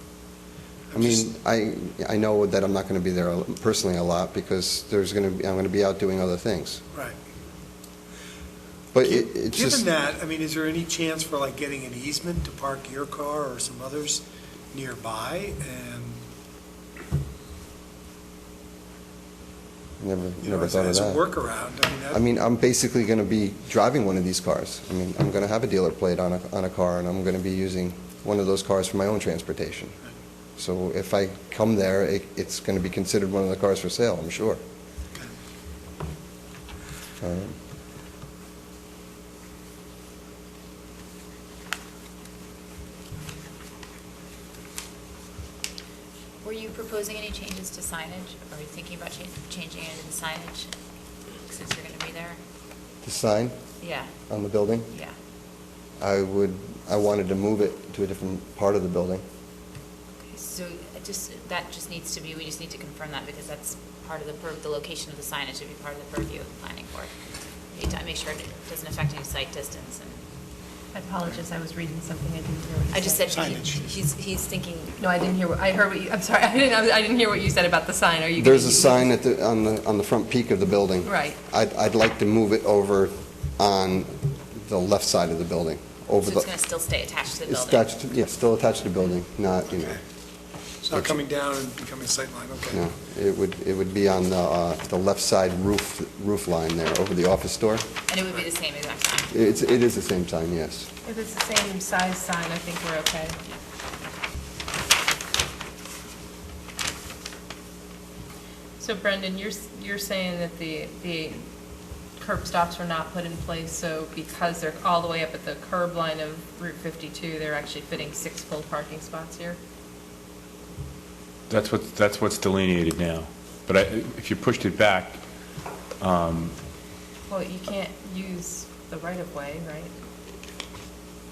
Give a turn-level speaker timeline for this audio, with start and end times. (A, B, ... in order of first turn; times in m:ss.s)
0:00.9-0:01.2 A
0:00.9-0:06.8 B
0:08.9-0:09.8 B
0:09.0-0:16.2 A
0:20.0-0:21.2 B
0:20.4-0:22.2 A
0:22.1-0:30.0 B
0:30.6-0:34.6 B
0:37.2-0:37.6 B
0:46.4-0:50.7 C
0:51.5-0:52.4 C
0:53.0-0:53.6 B
0:53.8-0:54.1 C
0:54.3-0:54.9 B
0:56.0-0:59.2 B
1:00.3-1:07.1 C
1:07.7-1:10.2 C
1:10.9-1:13.5 D
1:12.9-1:14.9 C
1:13.3-1:13.9 A
1:15.0-1:19.1 D
1:18.4-1:26.5 B
1:21.0-1:21.4 D
1:26.2-1:27.8 C
1:27.5-1:30.0 B
1:30.8-1:32.8 A
1:32.7-1:37.8 B
1:38.1-1:39.3 C
1:39.3-1:40.9 B
1:41.0-1:43.4 D
1:48.8-1:51.5 D
1:52.2-1:59.6 D
2:01.5-2:05.2 E
2:06.0-2:06.6 E
2:07.3-2:09.9 D